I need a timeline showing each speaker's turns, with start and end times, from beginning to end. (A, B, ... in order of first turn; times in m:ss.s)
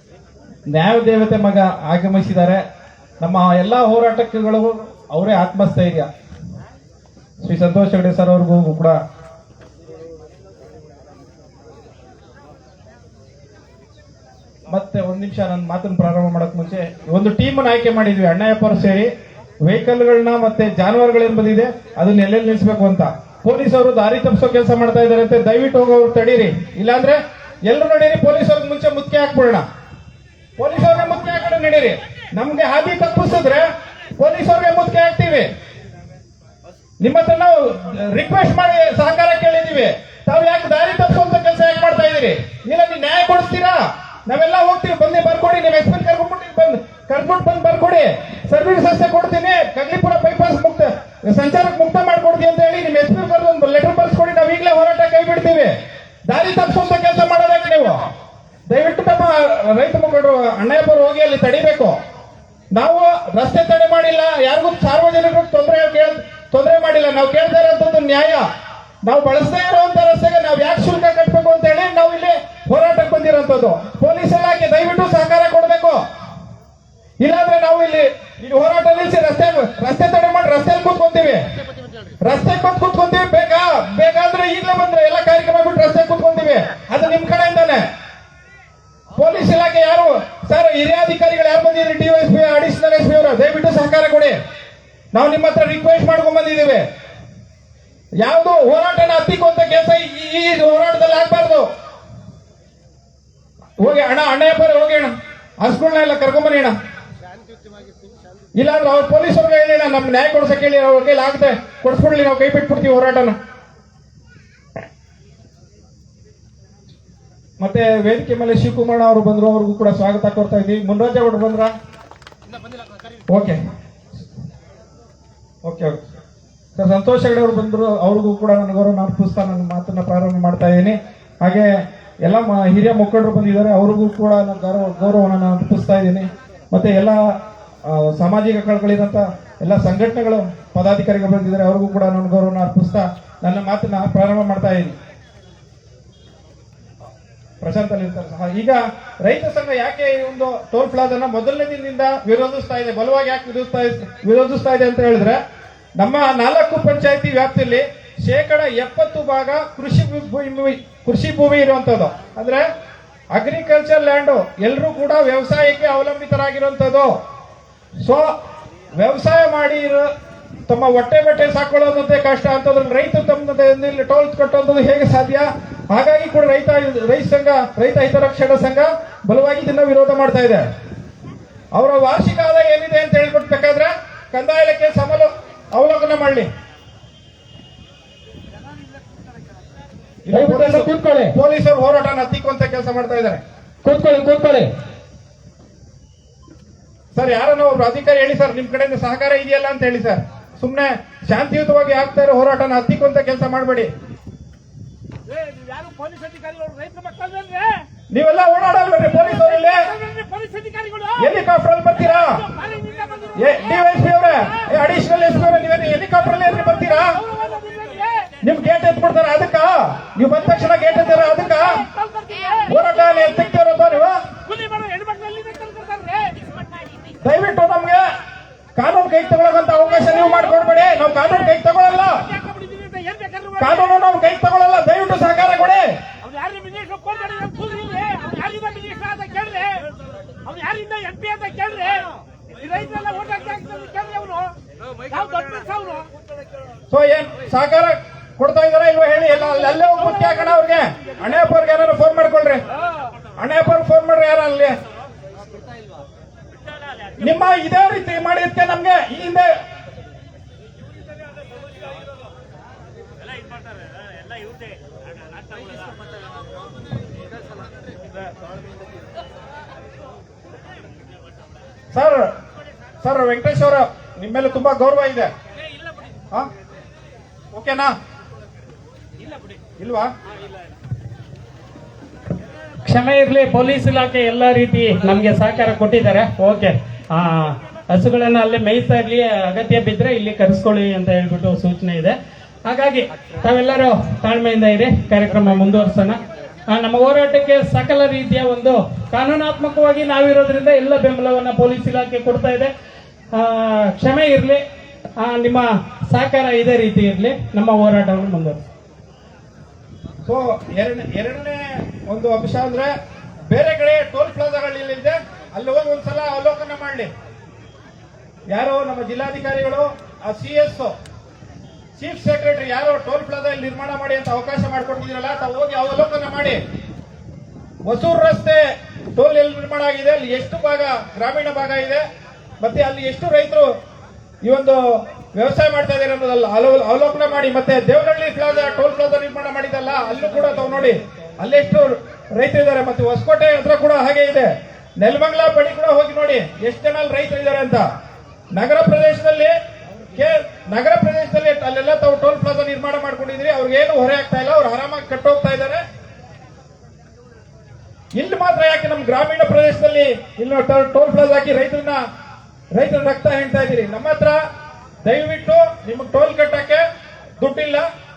0:00.7-0:02.6 A
0:03.2-0:06.1 A
0:07.4-0:09.0 A
0:14.7-0:19.1 A
0:19.6-0:29.6 A
0:30.6-0:35.5 A
0:37.0-0:55.7 A
0:56.3-0:58.1 A
0:58.7-1:02.0 A
1:02.7-1:08.4 A
1:09.0-1:16.0 A
1:17.2-1:21.4 A
1:22.2-1:27.8 A
1:29.2-1:34.4 A
1:35.1-1:36.8 A
1:38.2-1:41.7 A
1:43.8-1:46.7 A
1:48.6-1:53.4 A
1:57.6-2:01.7 A
2:03.3-2:03.6 A
2:05.6-2:06.0 A
2:06.8-2:17.2 A
2:17.8-2:25.0 A
2:27.6-2:35.4 A
2:36.0-2:42.6 A
2:43.3-2:47.2 A
2:48.0-2:48.3 A
2:49.0-2:50.1 A
2:50.7-3:00.6 A
3:01.7-3:06.5 A
3:10.3-3:13.4 A
3:10.3-3:11.3 B
3:13.9-3:14.7 B
3:17.1-3:23.9 A
3:25.3-3:27.0 B
3:25.7-3:27.8 C
3:28.1-3:30.0 A
3:30.0-3:31.1 C
3:31.2-3:32.4 A
3:32.5-3:33.3 C
3:33.4-3:37.2 A
3:37.2-3:38.3 C
3:38.4-3:41.9 A
3:41.9-3:42.6 C
3:42.7-3:44.2 A
3:44.5-3:46.4 C
3:47.2-3:48.0 A
3:48.8-3:52.3 A
3:52.4-3:53.6 C
3:53.6-3:55.8 A
3:56.2-3:59.9 C
4:00.4-4:04.6 C
4:05.1-4:06.1 C
4:06.9-4:12.6 A
4:13.4-4:14.8 A
4:17.2-4:19.5 A
4:31.9-4:32.3 A
4:33.0-4:35.3 A
4:37.5-4:37.9 A
4:39.8-4:40.1 A
4:42.9-5:02.7 B
5:03.3-5:04.6 B
5:05.2-5:08.6 B
5:10.3-5:12.9 A
5:13.5-5:17.1 A
5:18.5-5:20.9 A
5:22.0-5:26.6 A
5:27.8-5:28.6 A
5:29.2-5:32.0 A
5:32.6-5:33.7 A
5:34.4-5:47.8 A
5:48.6-5:49.5 A
5:50.1-5:55.8 A
5:58.2-6:02.0 A
6:02.7-6:04.4 A
6:05.0-6:06.8 A
6:07.4-6:07.9 A